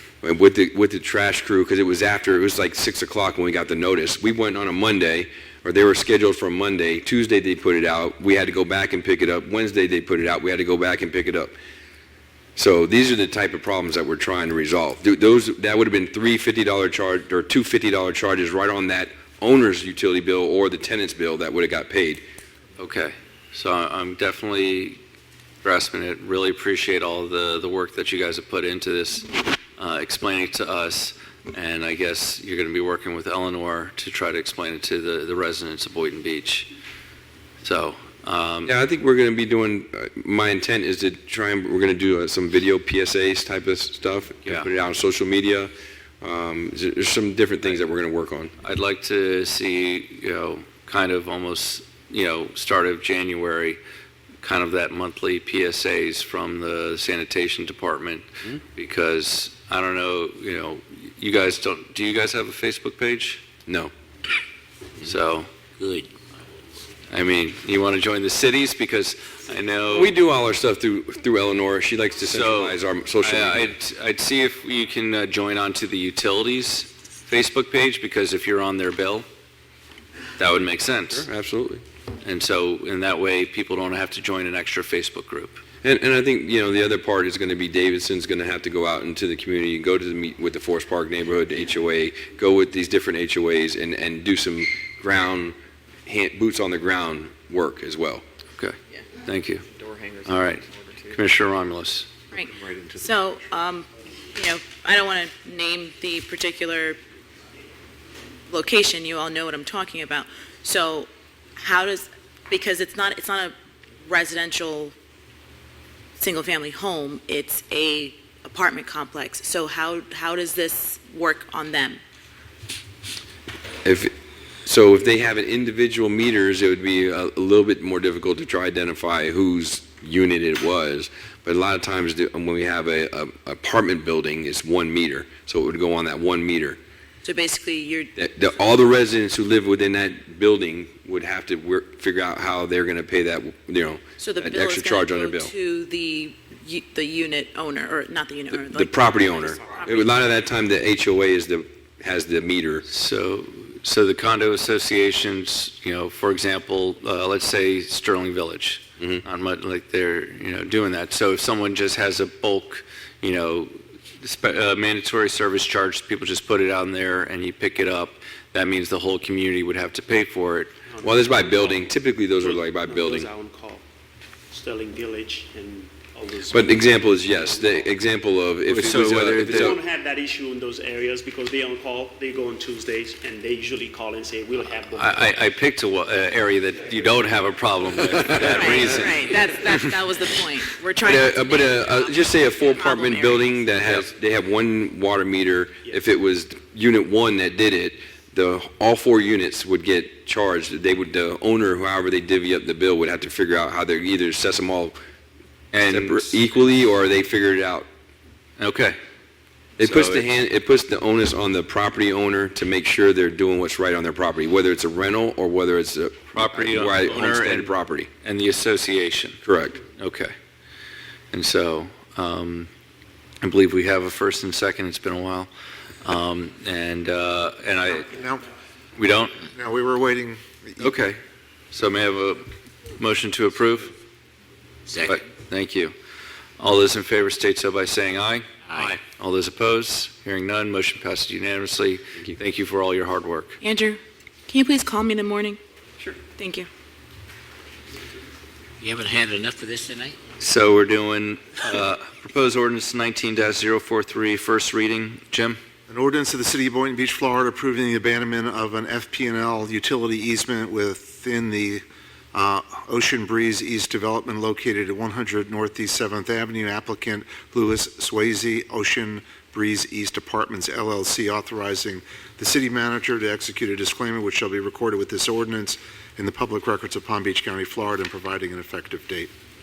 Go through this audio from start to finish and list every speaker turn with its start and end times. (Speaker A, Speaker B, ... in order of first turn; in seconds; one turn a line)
Speaker A: 0.2-11.5
Speaker A: 12.6-22.2
Speaker B: 22.8-25.0
Speaker B: 25.6-36.7
Speaker B: 37.6-38.8
Speaker A: 38.7-48.5
Speaker B: 48.6-53.8
Speaker B: 54.4-63.4
Speaker A: 63.7-63.9
Speaker B: 65.0-65.5
Speaker C: 65.8-66.1
Speaker B: 67.1-70.1
Speaker A: 69.9-73.7
Speaker B: 72.2-79.3
Speaker B: 80.4-81.3
Speaker A: 81.1-81.8
Speaker B: 82.2-85.6
Speaker A: 85.8-95.5
Speaker A: 96.1-98.2
Speaker B: 98.6-99.7
Speaker B: 100.2-102.1
Speaker D: 102.3-107.0
Speaker D: 108.5-113.5
Speaker D: 114.0-114.9
Speaker D: 116.2-122.0
Speaker A: 123.8-124.1
Speaker A: 124.7-136.8
Speaker D: 137.2-138.1
Speaker A: 138.2-145.5
Speaker D: 144.2-149.6
Speaker A: 148.5-152.8
Speaker B: 152.9-170.7
Speaker E: 170.9-173.8
Speaker A: 171.0-173.3
Speaker E: 174.5-177.9
Speaker A: 176.5-179.8
Speaker B: 178.7-179.8
Speaker E: 179.2-185.3
Speaker B: 184.9-189.9
Speaker D: 188.5-193.6
Speaker A: 191.0-205.0
Speaker B: 205.7-206.4
Speaker A: 205.9-207.9
Speaker B: 208.6-209.0
Speaker B: 209.8-210.3
Speaker A: 209.8-218.1
Speaker B: 216.3-219.4
Speaker A: 219.4-219.8
Speaker B: 219.9-220.3
Speaker B: 221.3-222.7
Speaker B: 223.4-225.5
Speaker B: 226.0-228.1
Speaker F: 228.0-228.5
Speaker B: 229.0-229.4
Speaker F: 229.4-231.0
Speaker B: 230.8-231.2
Speaker B: 231.7-232.5
Speaker B: 233.0-233.9
Speaker C: 234.9-235.2
Speaker B: 234.9-235.9
Speaker B: 236.6-243.6
Speaker C: 238.7-238.9
Speaker D: 243.6-245.6
Speaker D: 246.3-246.7
Speaker C: 248.8-250.2
Speaker B: 250.4-255.6
Speaker F: 255.9-261.8
Speaker F: 262.3-279.3